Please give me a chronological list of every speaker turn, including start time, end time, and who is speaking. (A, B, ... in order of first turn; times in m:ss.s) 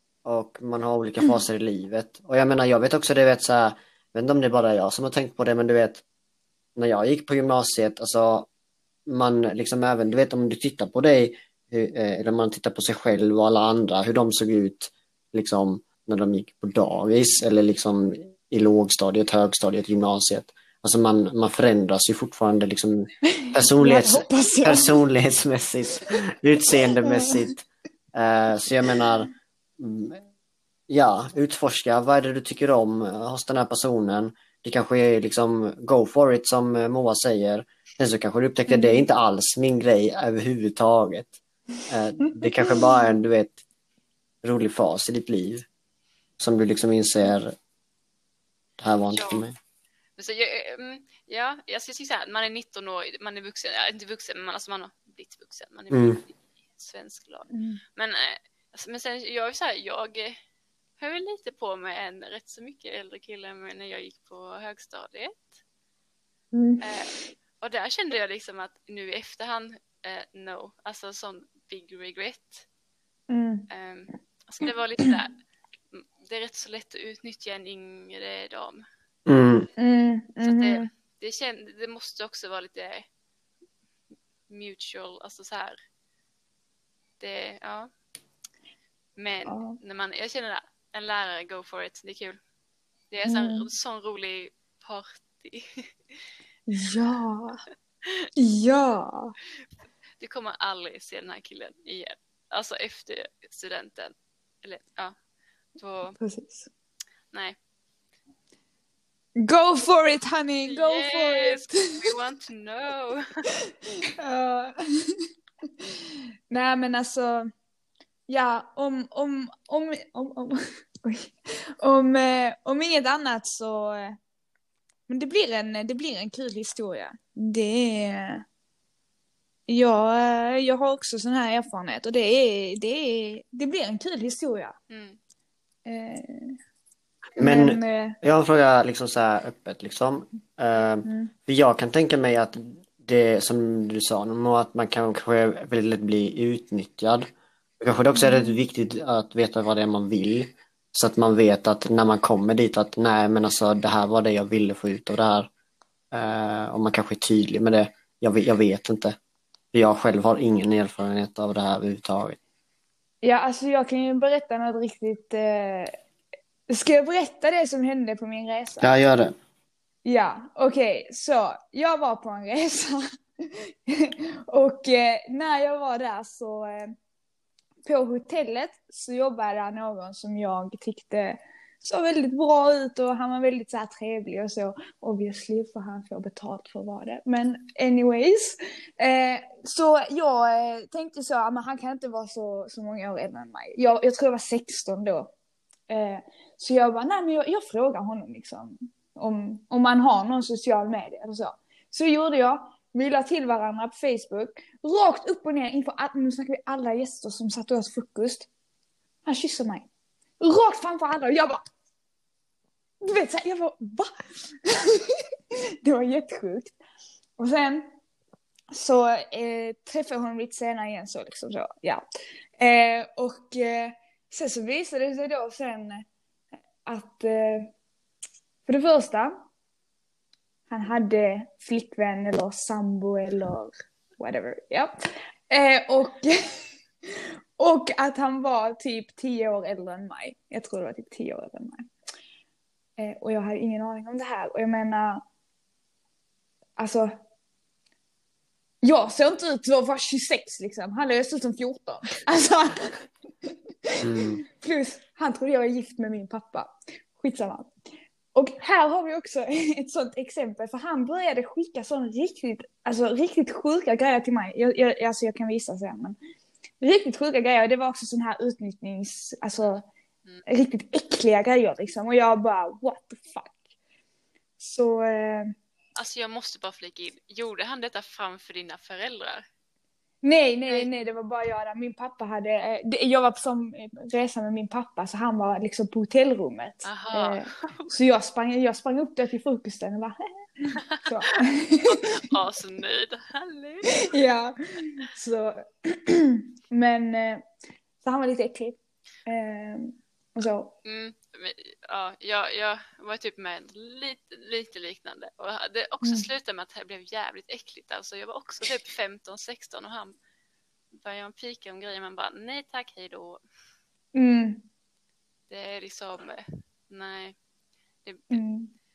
0:00.2-0:06.0 A
0:06.8-0:08.5 A
0:09.1-0:30.2 A
0:23.3-0:24.9 B
0:27.0-0:27.5 B
0:30.9-0:43.6 A
0:38.7-0:39.0 B
0:42.6-0:43.0 B
0:44.4-0:45.6 A
0:46.4-0:47.5 A
0:48.8-0:49.5 A
0:49.1-0:49.4 C
0:50.2-1:00.4 C
0:55.9-0:56.2 A
0:57.5-0:57.8 B
1:01.0-1:05.5 C
1:06.5-1:07.0 B
1:06.8-1:12.6 C
1:13.3-1:13.6 B
1:13.7-1:15.3 C
1:15.9-1:18.8 C
1:19.3-1:19.7 A
1:19.8-1:20.9 B
1:20.4-1:23.0 C
1:24.5-1:25.8 C
1:27.2-1:27.9 C
1:29.2-1:32.4 C
1:29.4-1:29.8 B
1:33.1-1:36.1 C
1:33.2-1:33.7 B
1:36.7-1:37.6 B
1:38.4-1:39.3 B
1:40.2-1:45.2 C
1:45.7-1:46.2 C
1:46.2-1:46.7 B
1:47.3-1:47.6 C
1:49.4-1:52.0 B
1:50.7-1:53.2 C
1:54.2-1:55.2 B
1:56.5-1:57.5 B
1:58.3-2:04.2 B
2:05.1-2:08.4 B
2:09.7-2:14.7 B
2:14.9-2:15.2 C
2:15.8-2:16.6 B
2:17.4-2:27.3 A
2:17.4-2:18.2 B
2:21.0-2:21.3 B
2:27.8-2:35.5 A
2:28.1-2:28.6 B
2:36.1-2:39.2 A
2:39.7-2:42.4 A
2:43.2-2:45.9 B
2:46.7-2:48.9 B
2:48.8-2:49.3 A
2:50.0-2:56.9 B
2:57.8-3:15.3 B
3:15.9-3:28.5 B
3:29.2-3:29.9 B
3:30.4-3:31.6 B
3:33.0-3:36.7 B
3:37.4-3:37.8 B
3:38.7-3:42.0 B
3:42.6-3:46.0 B
3:46.8-3:47.7 B
3:48.7-3:49.4 B
3:50.7-4:01.9 B
4:03.0-4:05.2 B
4:06.8-4:07.1 B
4:08.8-4:13.1 B
4:13.9-4:17.7 B
4:14.0-4:14.4 A
4:18.3-4:26.2 B
4:26.8-4:29.8 B
4:29.6-4:30.4 C
4:30.5-4:33.6 B
4:34.6-4:35.5 B
4:36.0-4:39.4 C
4:40.2-4:52.2 B
4:46.8-4:47.9 C
4:51.8-4:54.2 C
4:54.0-4:57.4 B
4:58.0-5:00.7 B
5:00.8-5:10.1 C
5:06.0-5:06.3 B
5:10.9-5:13.4 C
5:14.1-5:14.6 B
5:15.5-5:17.4 C
5:18.0-5:18.4 C
5:18.3-5:18.7 B